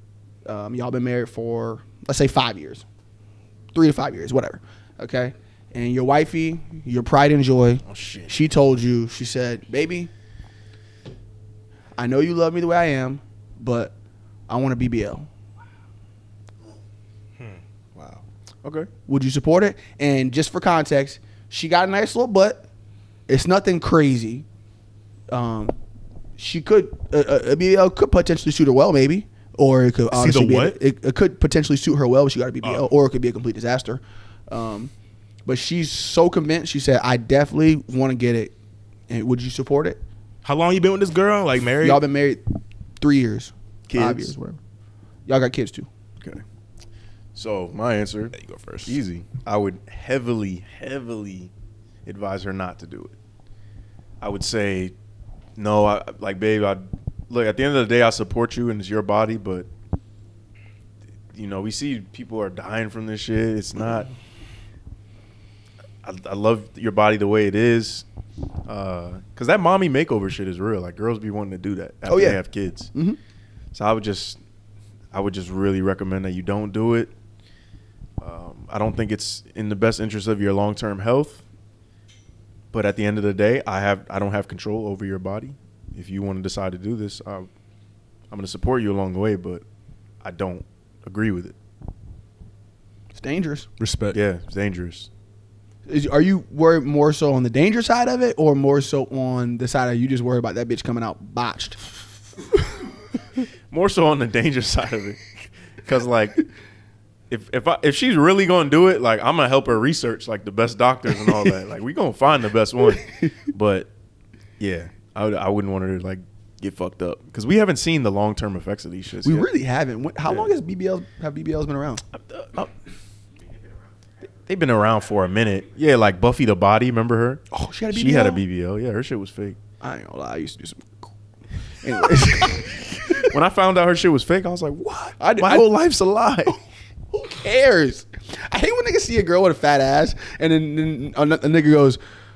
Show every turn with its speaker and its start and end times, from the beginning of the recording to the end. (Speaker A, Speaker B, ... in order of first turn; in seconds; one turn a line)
Speaker A: 0.5-2.9
Speaker A: 3.7-10.1
Speaker B: 7.8-8.4
Speaker A: 12.0-13.9
Speaker A: 14.5-15.3
Speaker B: 17.9-18.9
Speaker A: 19.1-22.7
Speaker A: 23.3-24.5
Speaker A: 25.3-25.8
Speaker A: 26.4-34.9
Speaker C: 30.1-30.8
Speaker A: 35.5-38.5
Speaker A: 39.1-40.0
Speaker C: 40.4-42.0
Speaker A: 41.8-42.4
Speaker A: 43.0-44.6
Speaker B: 43.9-44.3
Speaker A: 45.3-45.9
Speaker B: 47.4-51.5
Speaker C: 48.4-49.0
Speaker B: 52.0-53.1
Speaker B: 54.2-54.9
Speaker B: 55.6-59.7
Speaker B: 61.3-64.1
Speaker B: 66.0-68.1
Speaker B: 68.7-72.9
Speaker A: 72.1-72.4
Speaker A: 72.9-73.2
Speaker B: 73.7-74.4
Speaker B: 75.1-77.1
Speaker B: 78.2-81.4
Speaker B: 82.7-87.5
Speaker B: 88.3-89.6
Speaker B: 90.2-91.6
Speaker A: 93.2-93.7
Speaker C: 93.8-94.2
Speaker B: 94.1-95.1
Speaker A: 95.9-101.8
Speaker B: 103.7-106.4
Speaker B: 107.3-113.9
Speaker B: 114.6-119.5
Speaker A: 119.2-122.0
Speaker B: 120.2-120.5
Speaker B: 122.1-122.7
Speaker B: 124.4-129.6
Speaker A: 127.5-128.4
Speaker A: 129.8-131.1
Speaker A: 131.7-133.3
Speaker B: 133.2-136.6
Speaker A: 135.2-135.7
Speaker A: 137.1-142.0